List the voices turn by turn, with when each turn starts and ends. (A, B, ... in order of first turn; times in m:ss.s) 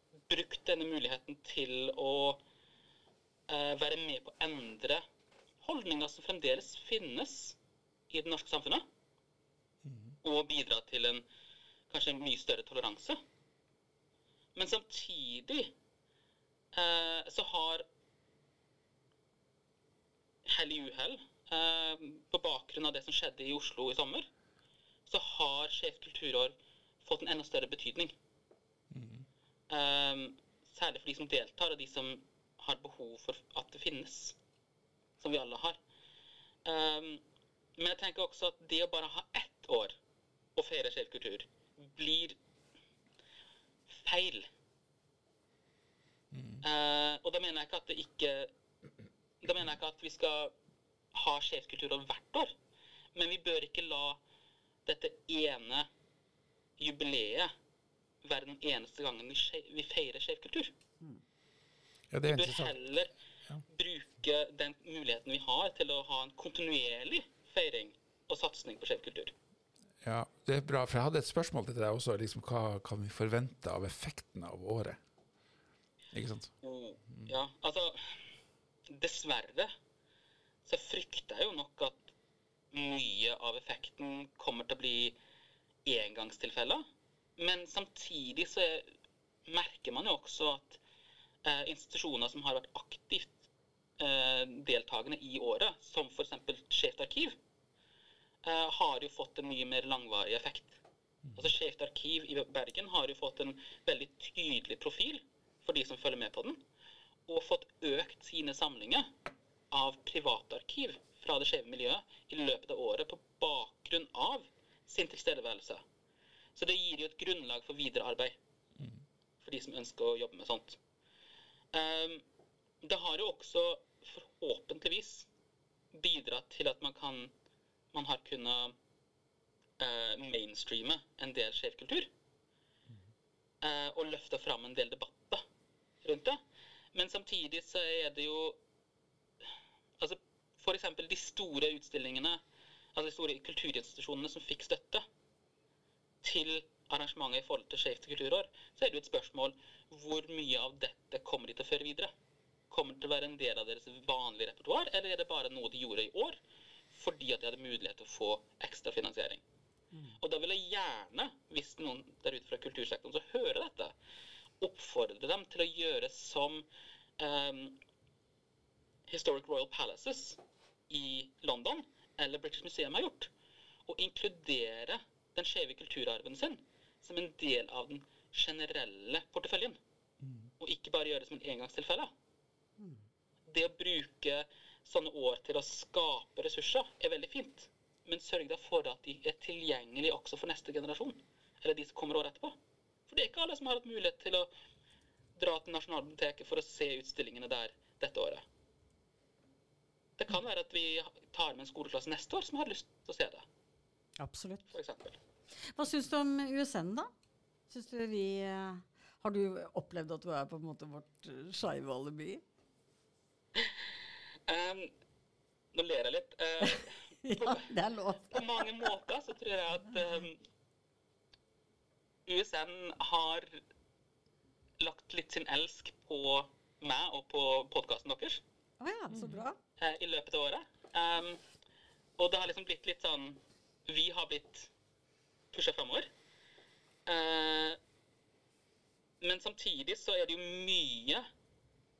0:00.3-0:02.4 A
0:03.5-0:05.0 A
0:05.6-0:07.6 A
0:08.1-0:08.9 A
0:09.8-0:10.1 B
0:10.2-0:11.2 A
0:11.9-0:13.2 A
0:14.6-0:15.7 A
0:16.7-0:17.8 A
0:20.4-0:24.3 A
0:25.1-0:28.2 A
0:28.9-0:29.3 B
0:29.7-0:34.4 A
0:35.2-0:35.8 A
0:36.6-0:37.2 A
0:37.8-0:40.0 A
0:40.6-0:42.4 A
0:43.9-0:44.5 A
0:46.3-0:46.6 B
0:46.6-0:48.5 A
0:49.4-0:50.5 A
0:51.1-0:52.5 A
0:53.1-0:54.2 A
0:54.8-0:55.9 A
0:56.8-0:57.5 A
0:58.2-1:00.7 A
1:02.1-1:02.8 B
1:02.3-1:03.1 A
1:03.7-1:09.3 A
1:10.0-1:15.0 B
1:16.1-1:16.5 B
1:16.6-1:18.2 A
1:18.9-1:19.7 A
1:20.6-1:22.1 A
1:22.7-1:25.2 A
1:25.8-1:26.8 A
1:27.4-1:28.9 A
1:29.5-1:30.8 A
1:31.4-1:33.4 A
1:34.0-1:37.4 A
1:38.4-1:40.8 A
1:41.2-1:41.5 B
1:41.4-1:46.6 A
1:47.3-1:49.1 A
1:49.7-1:55.8 A
1:56.5-1:58.4 A
1:59.4-2:00.8 A
2:01.7-2:02.2 A
2:02.8-2:05.3 A
2:05.9-2:07.3 A
2:07.9-2:08.7 A
2:09.8-2:12.1 A
2:13.6-2:15.4 A
2:16.0-2:16.4 A
2:16.9-2:18.6 A
2:20.0-2:22.4 A
2:22.9-2:25.0 A
2:26.2-2:32.1 A
2:32.7-2:36.4 A
2:36.9-2:39.4 A
2:39.9-2:40.2 C
2:40.2-2:43.9 A
2:44.6-2:46.6 A
2:47.2-2:47.8 A
2:49.1-2:53.3 A
2:53.9-2:59.8 A
3:00.6-3:02.1 A
3:03.5-3:12.6 A
3:13.1-3:14.5 A
3:15.4-3:18.4 A
3:20.2-3:23.4 A
3:24.2-3:24.7 C
3:24.7-3:25.2 A
3:25.6-3:27.1 C
3:27.7-3:32.4 C
3:33.6-3:33.8 A
3:34.5-3:34.9 A
3:35.7-3:37.7 A
3:36.6-3:38.8 C
3:38.3-3:40.4 A
3:42.2-3:43.6 A
3:44.8-3:48.4 A
3:48.8-3:49.6 C
3:49.1-3:49.4 B
3:49.8-3:51.4 A
3:52.2-3:54.7 A
3:55.5-3:56.1 A
3:57.0-3:57.8 A
3:59.2-4:01.3 A